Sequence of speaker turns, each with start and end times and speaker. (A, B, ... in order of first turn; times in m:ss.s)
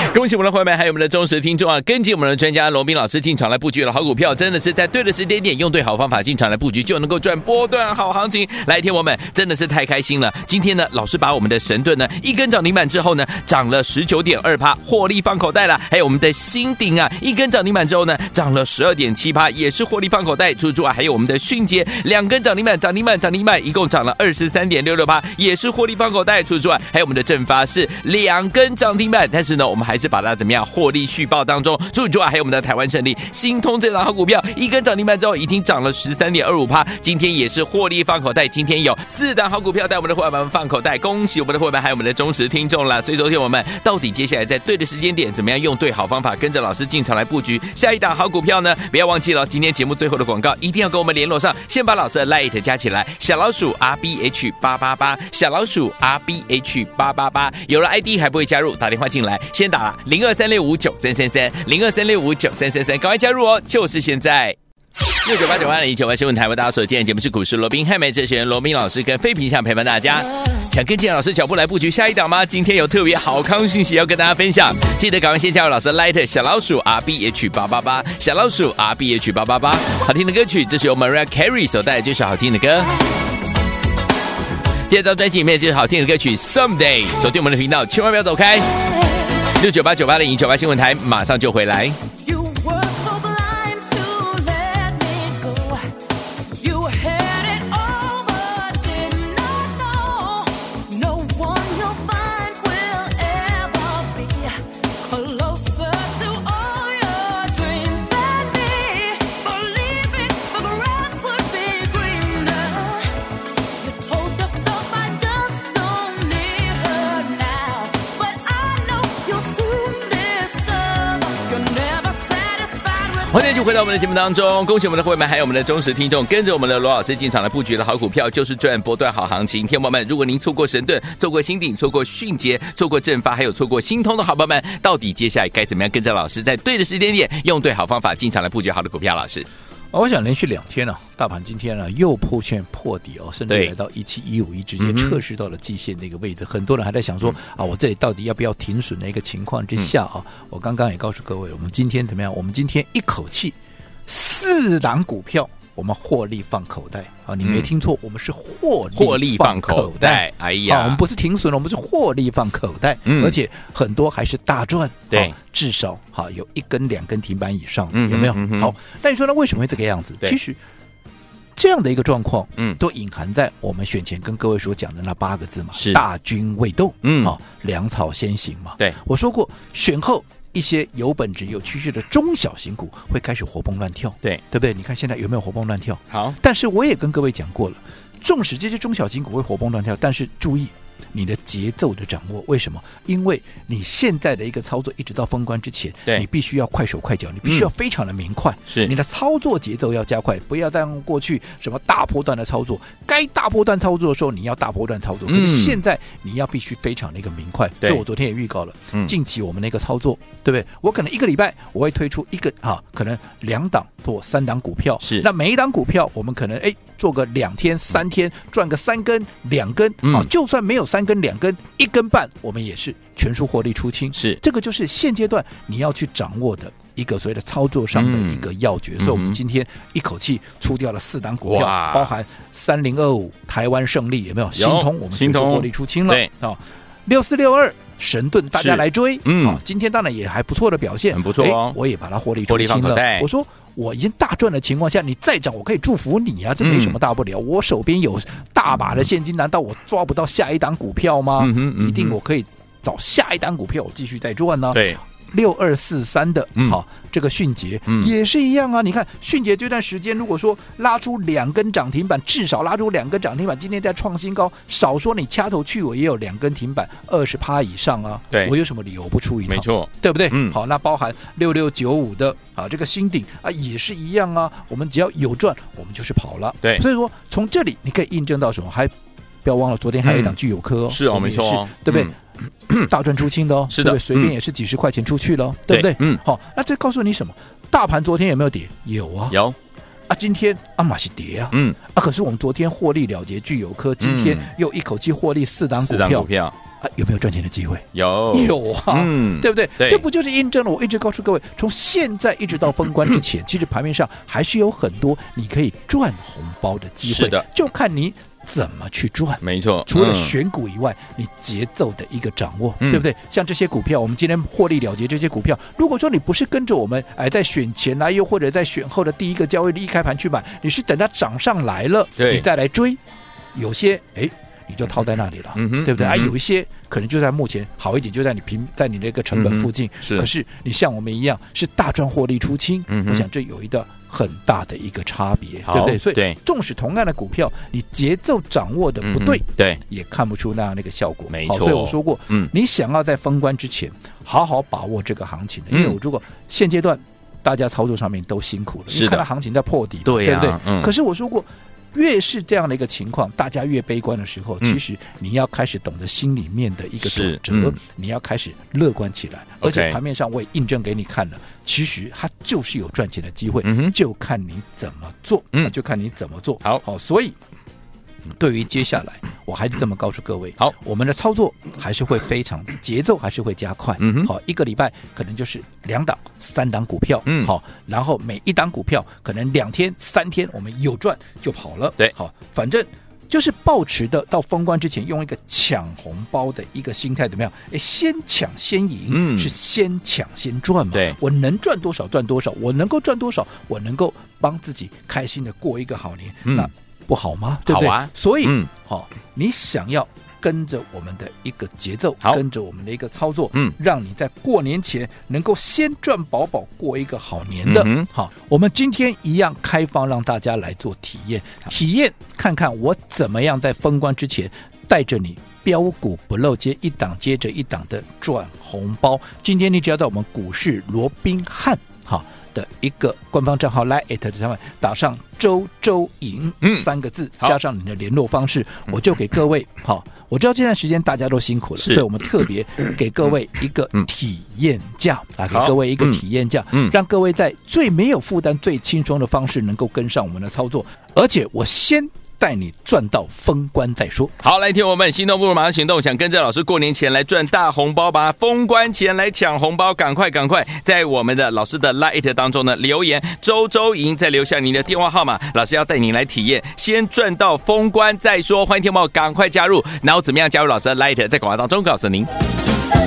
0:00.1-1:04.6 A
1:05.1-1:22.9 A
1:24.9-1:28.9 A
1:29.4-1:32.0 A
1:32.2-1:35.9 B
1:36.6-1:53.2 B
1:53.8-2:03.6 B
2:03.3-2:19.5 A
2:19.9-2:33.6 C
2:24.8-2:25.2 A
2:34.1-2:50.6 C
2:37.4-2:37.7 A
2:39.0-2:41.0 A
2:43.1-2:43.4 A
2:45.1-2:45.4 A
2:47.9-2:48.7 A
2:51.6-4:38.9 C
2:55.8-2:56.0 A
2:57.0-2:57.4 A
3:06.1-3:06.4 A
3:17.4-3:17.7 A
3:25.3-3:25.8 A
3:35.0-3:35.3 A
3:40.0-3:40.3 A
3:44.1-3:44.4 A
3:47.9-3:48.5 A
3:49.0-3:49.4 A
3:51.4-3:52.1 A
3:54.6-3:56.3 A
3:58.6-3:59.6 A
4:01.1-4:01.8 A
4:02.5-4:03.3 A
4:06.6-4:07.0 A
4:11.4-4:12.2 A
4:14.7-4:15.0 A
4:29.5-4:30.6 A
4:39.4-4:42.1 C
4:40.0-4:40.4 A
4:40.9-4:42.1 A
4:42.8-4:49.4 C
4:43.7-4:44.3 A
4:45.7-4:46.2 A
4:49.3-4:49.6 A
4:50.1-4:56.3 C
4:51.5-4:51.8 A
4:54.0-4:54.5 A
4:55.8-4:56.6 A
4:56.8-5:23.0 C
4:57.9-5:00.0 A
5:07.0-5:07.5 A
5:09.4-5:10.4 A
5:22.2-5:22.5 A
5:23.5-6:07.4 C
5:25.6-5:26.3 A
5:29.3-5:30.3 A
5:32.9-5:33.3 A
5:35.7-5:36.4 A
5:39.0-5:39.8 A
5:41.3-5:42.5 A
5:45.7-5:46.0 A
5:48.9-5:49.2 A
5:50.0-5:50.9 A
5:57.0-5:57.8 A
5:59.6-6:00.0 A
6:03.6-6:04.0 A
6:08.4-7:24.3 C
6:14.0-6:14.3 A
6:17.3-6:17.5 A
6:29.1-6:29.6 A
6:37.7-6:38.7 A
6:47.6-6:48.1 A
7:06.6-7:06.9 A
7:15.5-7:16.2 A
7:24.4-7:42.3 A